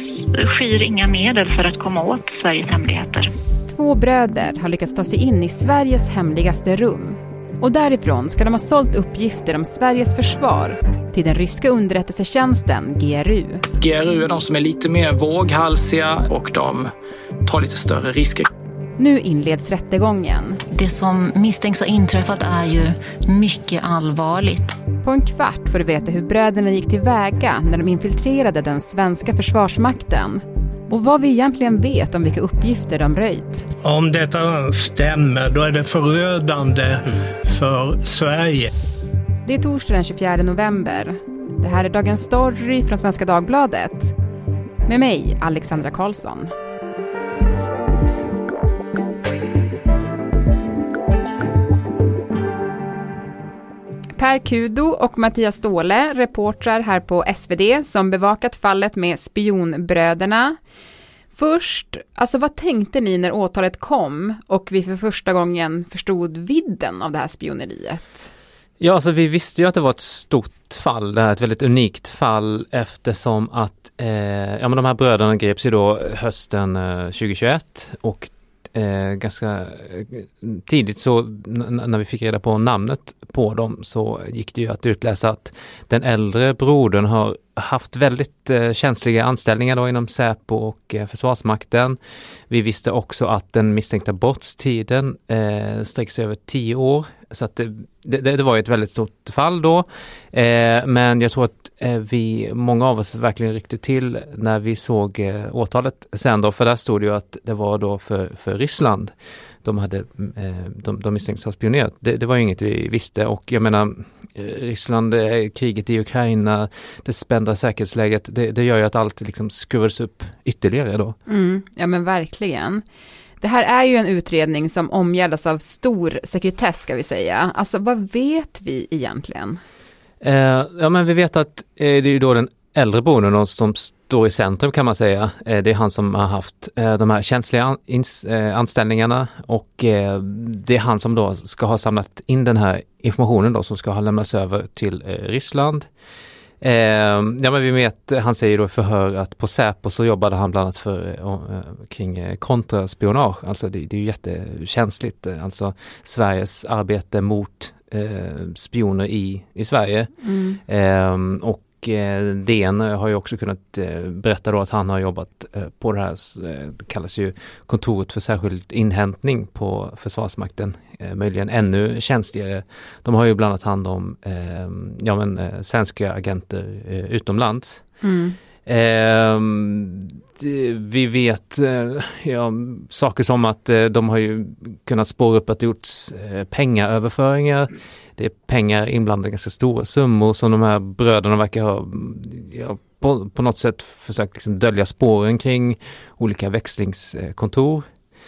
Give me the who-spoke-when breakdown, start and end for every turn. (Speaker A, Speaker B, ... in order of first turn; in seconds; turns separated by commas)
Speaker A: 0.5-3.2, Speaker B: 3.6-13.6, Speaker C: 13.8-16.9, Speaker C: 17.4-18.5, Speaker B: 19.0-20.6, Speaker D: 20.7-24.7, Speaker B: 25.0-33.7, Speaker E: 33.8-38.7, Speaker B: 39.4-44.1, Speaker B: 44.9-46.5, Speaker B: 54.1-60.6, Speaker B: 61.3-68.3, Speaker F: 68.8-92.0, Speaker F: 92.5-109.1, Speaker F: 109.6-121.2, Speaker B: 121.3-122.8, Speaker B: 123.4-129.6, Speaker F: 130.2-145.9, Speaker F: 146.6-160.1, Speaker B: 160.3-160.6, Speaker F: 160.7-177.9, Speaker B: 178.0-178.3, Speaker F: 178.7-197.8